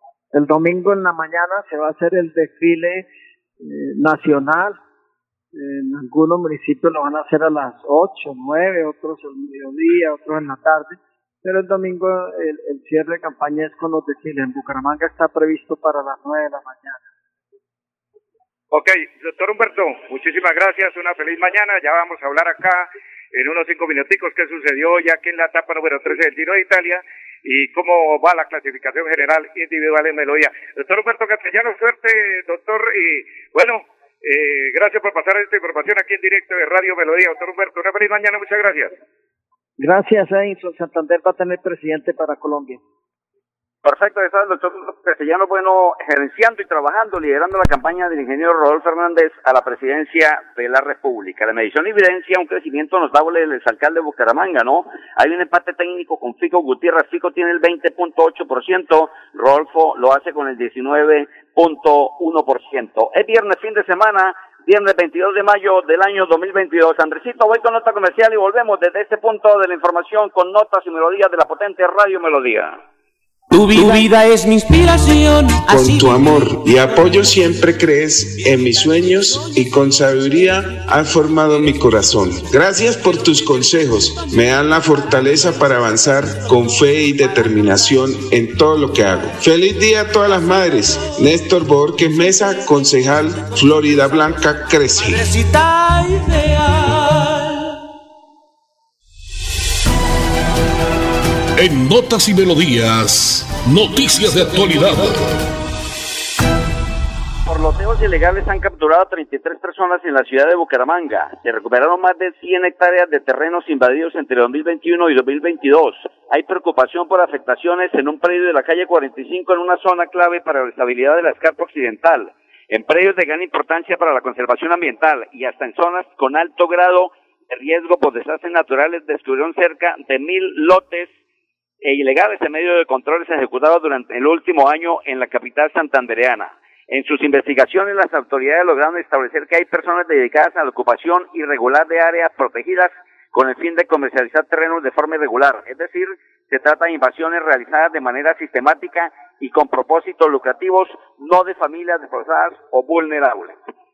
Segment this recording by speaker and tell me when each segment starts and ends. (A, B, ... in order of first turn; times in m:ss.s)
0:00.3-0:03.0 A
0:03.6-0:04.8 A
0:05.5-0:17.0 A
0:18.7-0:39.0 B
0:39.8-0:42.8 A
0:43.8-1:12.8 C
1:13.5-1:16.1 D
1:15.7-1:35.3 E
1:35.3-1:37.6 D
1:41.6-1:45.4 F
1:47.5-2:11.1 C
2:11.8-2:33.5 C